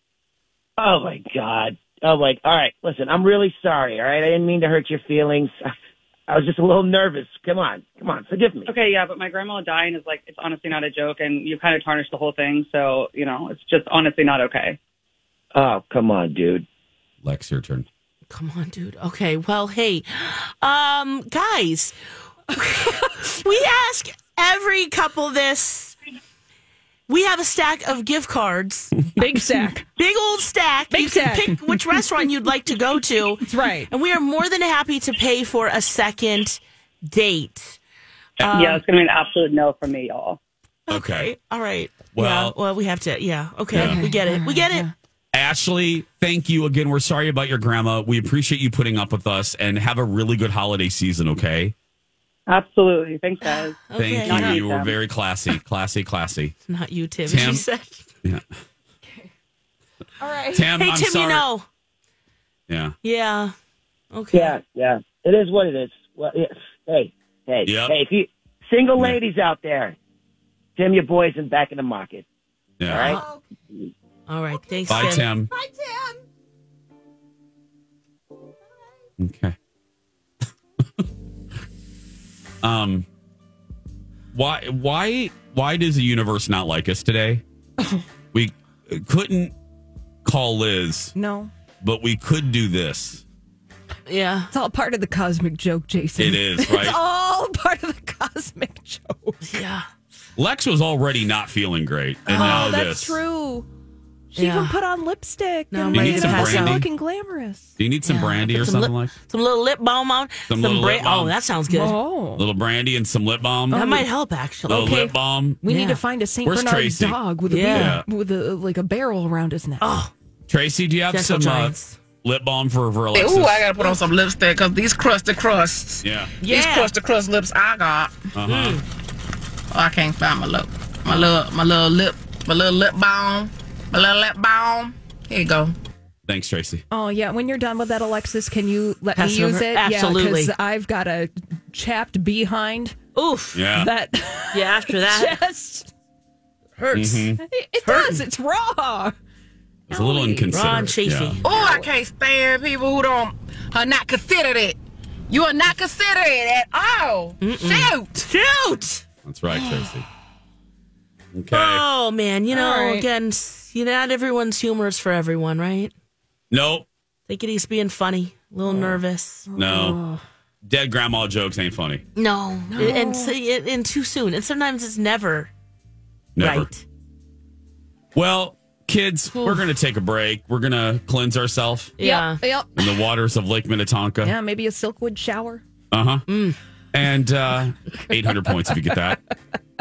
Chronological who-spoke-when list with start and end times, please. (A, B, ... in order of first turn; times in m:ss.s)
0:00.8-0:05.7 A
0:06.3-0:08.7 A
0:08.7-0:14.8 B
0:15.5-0:16.6 A
0:17.2-0:17.9 C
0:18.3-0:22.0 D
0:22.5-0:26.0 D
0:22.8-0:23.1 E
0:27.1-0:29.1 D
0:29.2-0:29.9 E
0:30.0-0:37.8 D
0:30.9-0:32.3 E
0:33.4-0:33.9 E
0:38.4-0:38.8 D
0:38.5-0:40.4 B
0:40.9-0:44.9 D
0:40.9-0:41.3 C
0:42.1-0:42.6 C
0:43.7-0:44.0 C
0:43.7-0:44.9 E
0:45.3-0:51.7 C
0:52.5-0:55.0 B
0:53.9-0:54.5 D
0:54.0-0:56.5 C
0:56.7-0:58.1 D
0:57.3-0:57.7 C
0:59.0-0:59.3 E
1:00.2-1:00.7 E
1:00.5-1:01.5 C
1:00.7-1:01.7 D
1:02.7-1:02.9 C
1:03.0-1:03.5 D
1:04.1-1:04.6 D
1:04.3-1:10.0 A
1:07.7-1:07.9 C
1:10.8-1:12.2 A
1:12.8-1:13.1 C
1:12.9-1:13.2 A
1:12.9-1:13.3 D
1:14.3-1:15.2 D
1:14.9-1:15.5 C
1:15.0-1:16.2 E
1:19.2-1:19.6 C
1:22.6-1:23.1 C
1:24.3-1:27.4 C
1:28.3-1:29.5 C
1:30.2-1:31.1 C
1:31.1-1:31.5 E
1:31.8-1:33.2 C
1:34.1-1:34.5 D
1:34.5-1:39.6 E
1:36.2-1:37.0 C
1:39.4-1:39.9 D
1:40.4-1:43.2 C
1:42.3-1:43.7 E
1:44.3-1:47.7 E
1:44.4-1:44.8 D
1:45.7-1:46.8 D
1:45.9-1:46.9 C
1:47.8-1:49.2 C
1:48.0-1:52.0 D
1:50.5-1:51.3 C
1:51.7-1:52.4 E
1:52.4-1:53.8 C
1:53.7-1:54.1 E
1:53.7-1:54.9 D
1:54.7-2:00.0 E
1:54.7-1:55.6 C
1:55.7-1:56.0 D
1:56.4-1:58.0 C
1:57.5-1:58.0 D
1:59.8-2:00.1 D
2:00.5-2:03.7 C
2:01.1-2:02.0 D
2:03.1-2:08.2 F
2:06.0-2:06.4 C
2:06.4-2:06.9 D
2:08.4-2:08.8 C
2:08.5-2:08.8 D
2:09.7-2:15.8 F
2:16.3-2:16.8 C
2:16.9-2:23.0 E
2:19.2-2:20.5 D
2:23.2-2:23.7 D
2:23.5-2:23.9 C
2:23.7-2:25.9 E
2:24.5-2:25.4 D
2:26.8-2:27.3 D
2:26.9-2:27.4 C
2:27.4-2:29.2 E
2:27.8-2:28.2 D
2:29.9-2:31.4 C
2:29.9-2:30.7 E
2:30.5-2:31.9 D
2:31.4-2:38.1 F
2:37.4-2:39.0 D
2:39.2-2:40.1 C
2:41.4-2:41.8 C
2:41.5-2:45.9 D
2:42.5-2:43.1 E
2:46.5-2:46.9 C
2:47.3-2:49.5 D
2:48.7-2:49.0 C
2:49.5-2:50.2 E
2:49.6-2:50.0 C
2:50.6-2:52.0 C
2:52.2-2:55.5 D
2:52.7-2:53.3 E
2:56.4-2:56.7 C
2:56.4-2:56.8 D
2:58.2-3:02.0 C
2:59.3-2:59.6 D
3:02.0-3:02.4 D
3:02.0-3:03.1 E
3:02.8-3:04.4 C
3:04.2-3:05.6 E
3:05.9-3:06.2 C
3:06.3-3:06.6 D
3:06.9-3:09.2 C